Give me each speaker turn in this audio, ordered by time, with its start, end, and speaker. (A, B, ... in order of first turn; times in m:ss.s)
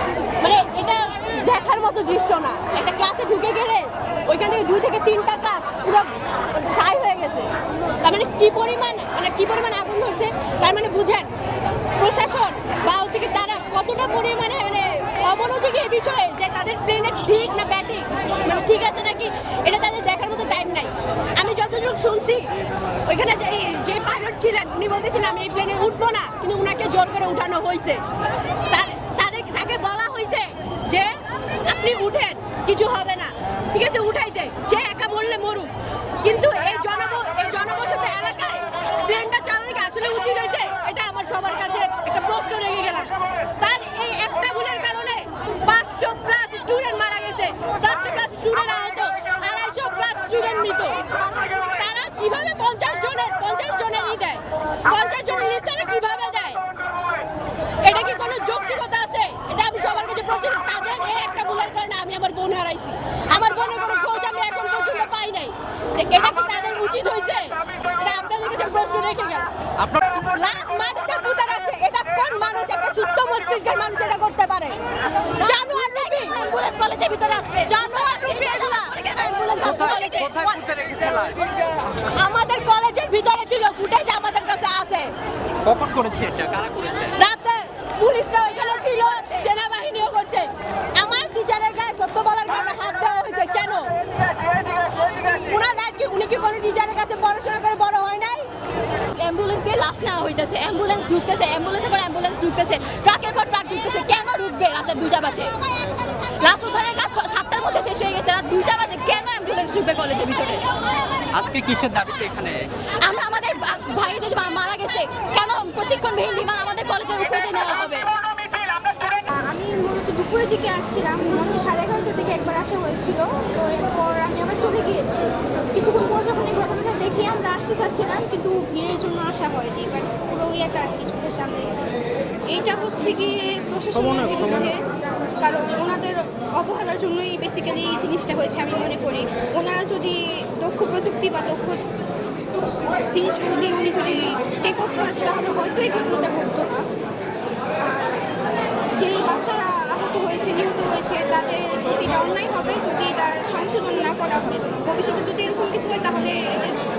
0:00.4-0:11.3 A
0:12.0-0:22.5 A
0:23.0-0:28.0 A
0:28.7-0:35.7 A
0:36.2-0:51.0 A
0:51.6-0:56.6 A
0:57.8-1:14.8 A
1:15.4-1:20.3 B
1:15.4-1:16.4 A
1:17.6-1:19.0 A
1:19.6-1:20.6 A
1:19.6-1:21.5 C
1:22.0-1:25.1 A
1:25.6-1:27.1 C
1:27.2-1:33.9 A
1:35.1-1:38.5 A
1:39.2-1:45.5 B
1:46.4-1:50.6 B
1:51.3-1:52.7 C
1:53.0-1:58.1 B
1:59.3-2:11.9 D
2:12.5-2:14.8 D
2:15.4-2:21.8 D
2:23.1-2:26.8 D
2:27.8-2:28.2 D
2:28.9-2:36.8 D